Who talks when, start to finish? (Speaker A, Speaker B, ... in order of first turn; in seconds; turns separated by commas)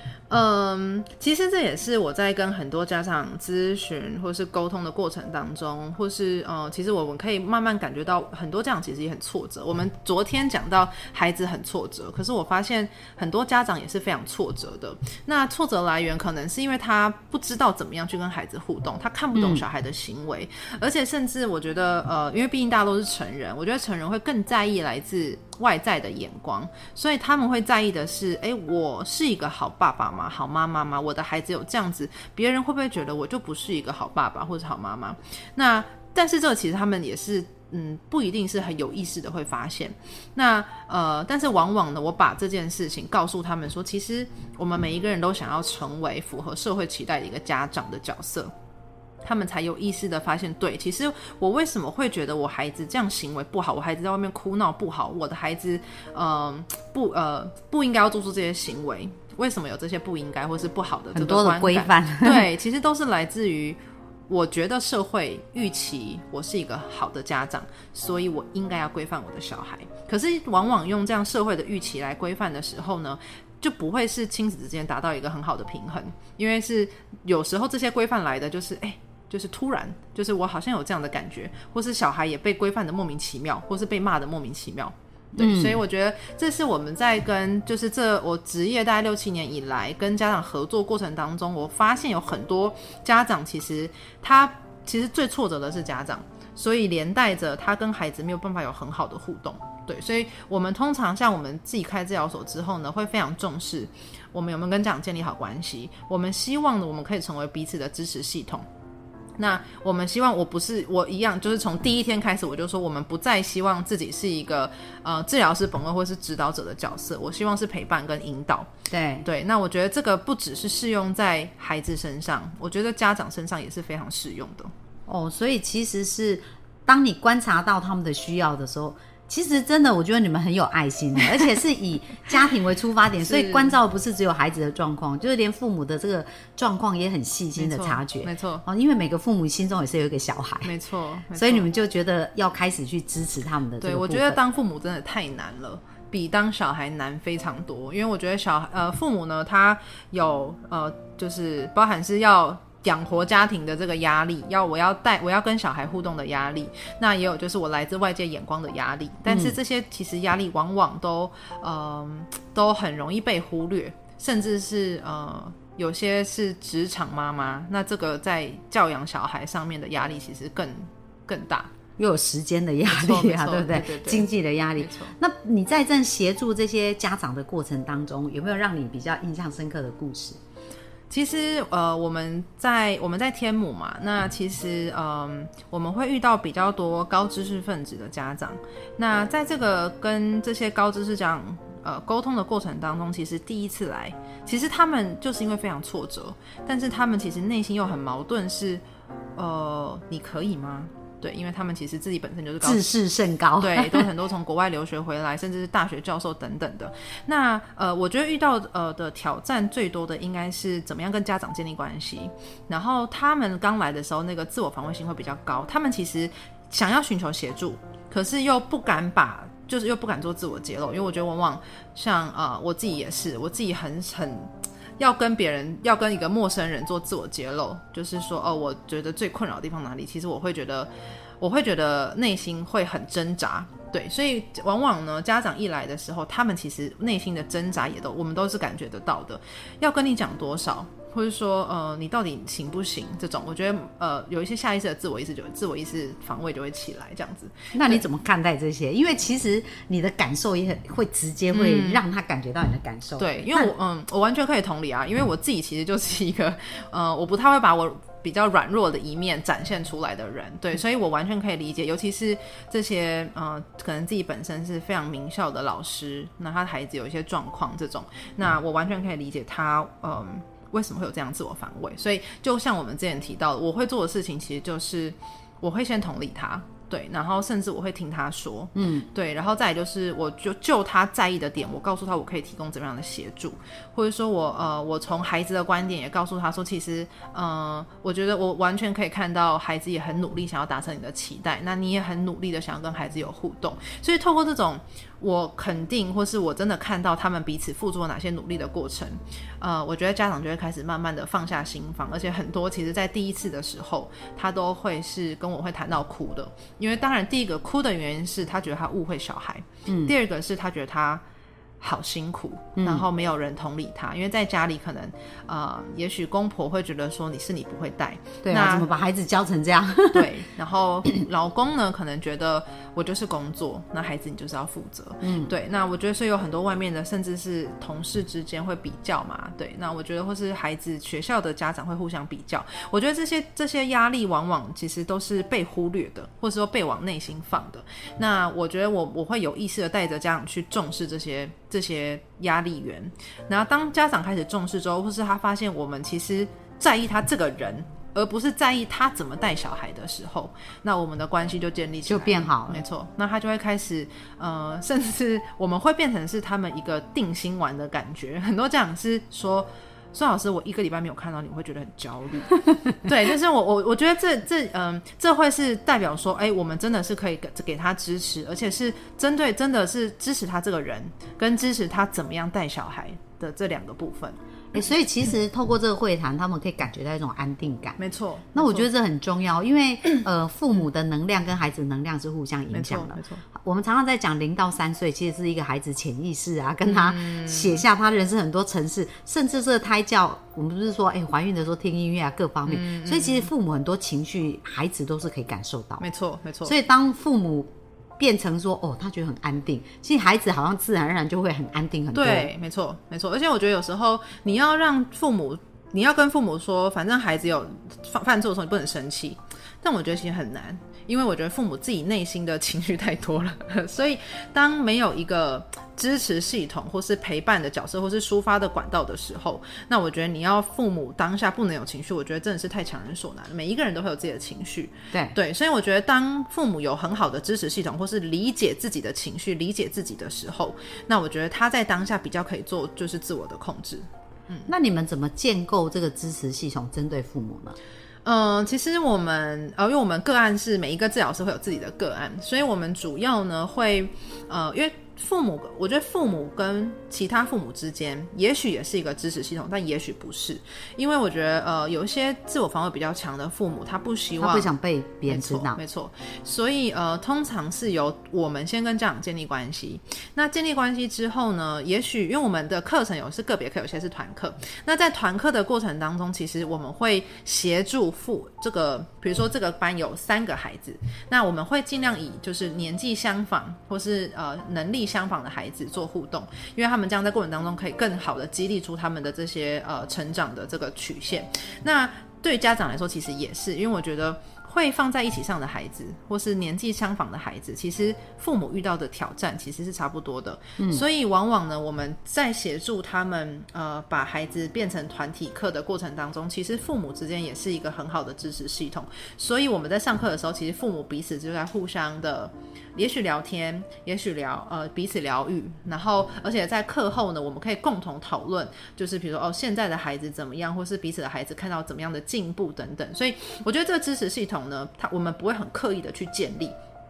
Speaker A: 0.3-48.5, Speaker B: 19.3-19.6, Speaker A: 49.2-63.8, Speaker B: 61.1-62.5, Speaker A: 64.3-108.6, Speaker B: 85.4-85.8, Speaker A: 109.4-118.7, Speaker B: 118.9-119.2, Speaker A: 119.2-124.7, Speaker B: 125.1-140.7, Speaker A: 133.2-133.7, Speaker A: 137.6-138.6, Speaker A: 140.6-141.7, Speaker B: 141.3-144.4, Speaker A: 143.8-171.7, Speaker B: 159.3-159.6, Speaker B: 172.0-180.4, Speaker A: 172.8-175.1, Speaker A: 181.1-198.8, Speaker A: 199.3-202.8, Speaker B: 202.6-204.1, Speaker A: 203.6-248.0, Speaker B: 247.7-253.7, Speaker A: 251.5-252.0, Speaker A: 253.2-311.2, Speaker B: 278.7-279.1, Speaker B: 309.9-310.1, Speaker A: 311.8-318.8, Speaker B: 312.8-313.1, Speaker B: 318.4-320.3, Speaker A: 320.1-374.4, Speaker B: 325.2-325.5, Speaker B: 352.1-352.8, Speaker B: 374.7-378.0, Speaker A: 378.0-378.9, Speaker B: 378.5-396.0, Speaker A: 382.7-383.4, Speaker A: 386.8-387.8, Speaker A: 392.6-393.5, Speaker A: 396.0-396.7, Speaker B: 396.6-402.5, Speaker A: 402.1-434.7, Speaker B: 434.7-437.8, Speaker A: 438.2-454.7, Speaker B: 454.4-455.8, Speaker A: 455.3-516.7, Speaker B: 490.8-491.0